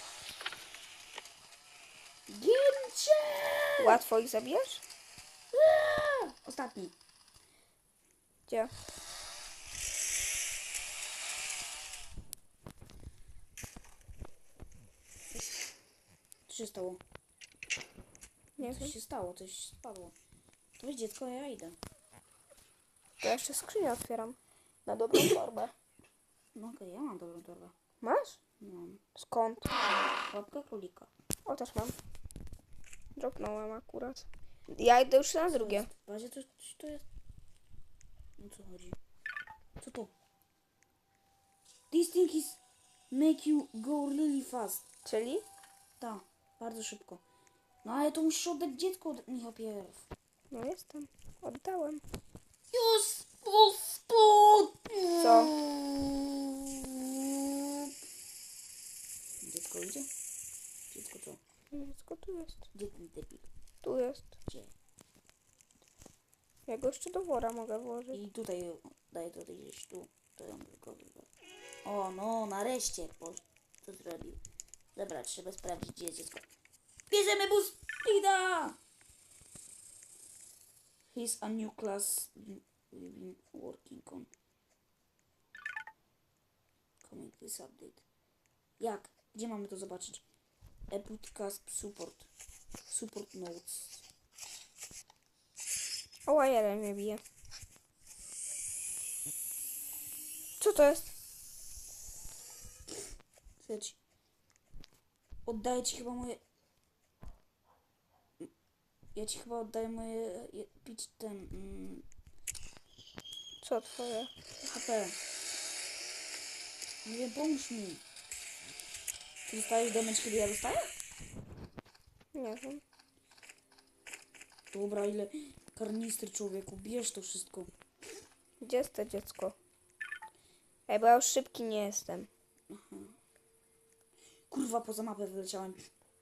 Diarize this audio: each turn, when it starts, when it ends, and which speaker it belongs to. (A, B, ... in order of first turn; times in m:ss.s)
0:02.3-0:04.0 A
0:03.8-0:04.8 B
0:05.5-0:06.9 A
0:15.3-0:15.6 A
0:16.5-0:17.0 A
0:18.6-0:19.0 B
0:18.6-0:20.1 A
0:20.8-0:21.8 A
0:23.2-0:25.7 B
0:26.5-0:27.7 A
0:28.0-0:28.4 B
0:28.6-0:29.0 A
0:29.1-0:29.7 B
0:30.3-0:31.1 A
0:31.4-0:32.0 B
0:33.2-0:35.9 B
0:35.5-0:37.0 A
0:38.4-0:39.0 A
0:39.8-0:40.1 A
0:41.9-0:42.6 A
0:43.1-0:44.8 A
0:45.0-0:45.4 B
0:46.0-0:47.2 A
0:47.8-0:50.0 A
0:50.5-0:52.0 B
0:52.7-0:57.9 A
0:55.1-0:55.5 B
0:59.4-1:00.1 A
1:00.9-1:01.4 A
1:01.7-1:02.7 B
1:02.7-1:03.5 A
1:03.8-1:04.3 B
1:04.5-1:04.7 A
1:06.7-1:08.2 B
1:08.1-1:11.3 A
1:11.8-1:14.4 A
1:14.9-1:16.4 A
1:17.1-1:18.8 A
1:21.1-1:24.3 A
1:27.0-1:28.0 A
1:28.8-1:30.2 A
1:30.9-1:32.3 A
1:32.9-1:34.0 A
1:36.2-1:37.2 B
1:40.6-1:41.1 B
1:43.6-1:44.0 A
1:45.4-1:46.4 A
1:49.1-1:52.0 A
1:53.6-1:54.3 B
1:54.6-1:55.2 A
1:57.0-1:58.0 A
1:59.5-2:00.9 A
2:02.3-2:02.8 B
2:04.7-2:07.7 A
2:08.6-2:09.5 B
2:10.9-2:12.3 B
2:12.7-2:13.1 A
2:14.5-2:15.9 A